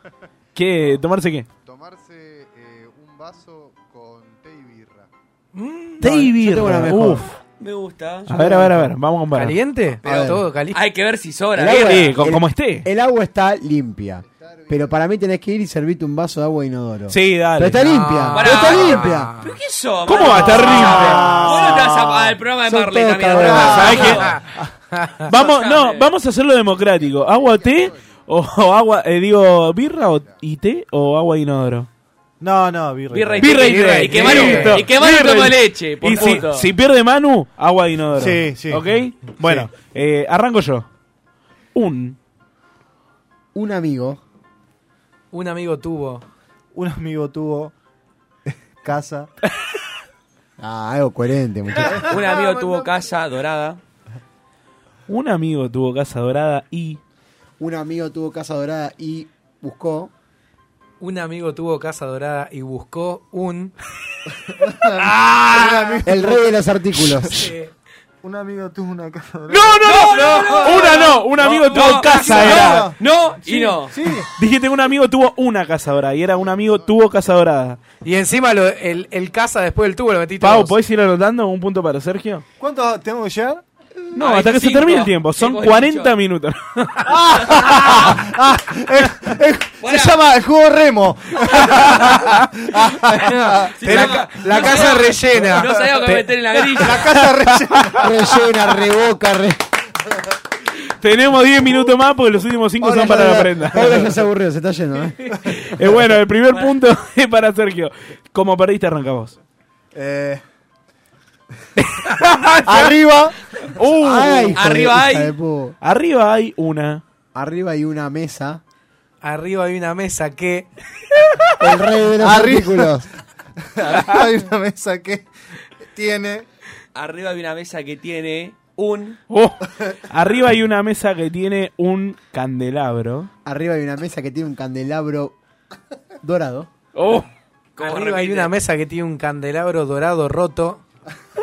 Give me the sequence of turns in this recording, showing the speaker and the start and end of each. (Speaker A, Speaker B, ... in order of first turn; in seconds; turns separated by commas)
Speaker A: 0.6-1.5, Speaker B: 1.6-5.1, Speaker C: 5.5-6.1, Speaker D: 6.0-7.3, Speaker A: 6.0-7.4, Speaker E: 7.6-8.3, Speaker A: 8.3-9.6, Speaker D: 8.3-8.9, Speaker C: 9.3-10.8, Speaker E: 10.0-12.2, Speaker D: 10.1-10.4, Speaker D: 11.6-19.3, Speaker A: 11.8-12.9, Speaker B: 14.2-15.0, Speaker A: 17.1-17.8, Speaker C: 17.8-19.5, Speaker E: 18.3-24.4, Speaker A: 20.1-21.4, Speaker F: 20.5-22.4, Speaker C: 20.6-20.9, Speaker D: 22.6-24.0, Speaker F: 23.3-24.7, Speaker A: 23.7-24.3, Speaker C: 23.9-24.4, Speaker C: 24.9-25.3, Speaker A: 25.3-31.9, Speaker E: 25.3-26.1, Speaker B: 27.0-28.2, Speaker B: 30.1-30.4, Speaker F: 32.4-34.5, Speaker E: 33.1-36.7, Speaker A: 33.4-40.9, Speaker C: 33.6-34.9, Speaker F: 38.1-39.7, Speaker A: 41.8-42.2, Speaker D: 43.5-44.2, Speaker C: 45.3-46.2, Speaker F: 46.7-47.7, Speaker F: 48.5-49.3, Speaker D: 50.6-52.1, Speaker E: 52.0-53.8, Speaker C: 52.3-52.9, Speaker A: 55.1-57.0, Speaker D: 57.6-60.1, Speaker C: 61.0-63.7, Speaker F: 64.5-66.6, Speaker D: 66.0-67.3, Speaker C: 67.3-67.7, Speaker F: 68.2-69.9, Speaker A: 69.5-72.9, Speaker E: 69.8-74.0, Speaker C: 69.8-71.1, Speaker F: 71.4-74.3, Speaker A: 74.4-77.8, Speaker C: 78.0-80.8, Speaker A: 80.4-82.5, Speaker F: 82.6-83.6, Speaker A: 84.2-87.2, Speaker E: 84.2-86.1, Speaker F: 87.1-93.9, Speaker E: 87.4-88.2, Speaker E: 89.8-90.2, Speaker C: 93.3-95.7, Speaker E: 93.8-97.1, Speaker A: 93.8-94.5, Speaker F: 94.5-95.6, Speaker F: 96.8-98.1, Speaker A: 97.2-98.0, Speaker D: 97.9-99.6, Speaker A: 101.0-104.1, Speaker D: 102.8-105.2, Speaker F: 103.0-103.7, Speaker A: 105.5-109.4, Speaker F: 109.9-110.4, Speaker A: 111.8-113.0, Speaker F: 112.6-113.4, Speaker A: 113.8-114.6, Speaker D: 113.9-115.8, Speaker E: 114.5-115.3, Speaker A: 115.8-117.0, Speaker D: 117.3-118.6, Speaker C: 119.2-120.7, Speaker D: 121.6-123.1, Speaker F: 122.2-123.0, Speaker F: 123.8-125.3, Speaker F: 125.9-126.5, Speaker E: 127.0-129.2, Speaker A: 129.3-133.3, Speaker D: 133.4-135.4, Speaker D: 136.2-136.7, Speaker A: 136.9-137.3, Speaker E: 137.8-138.5, Speaker C: 137.8-140.8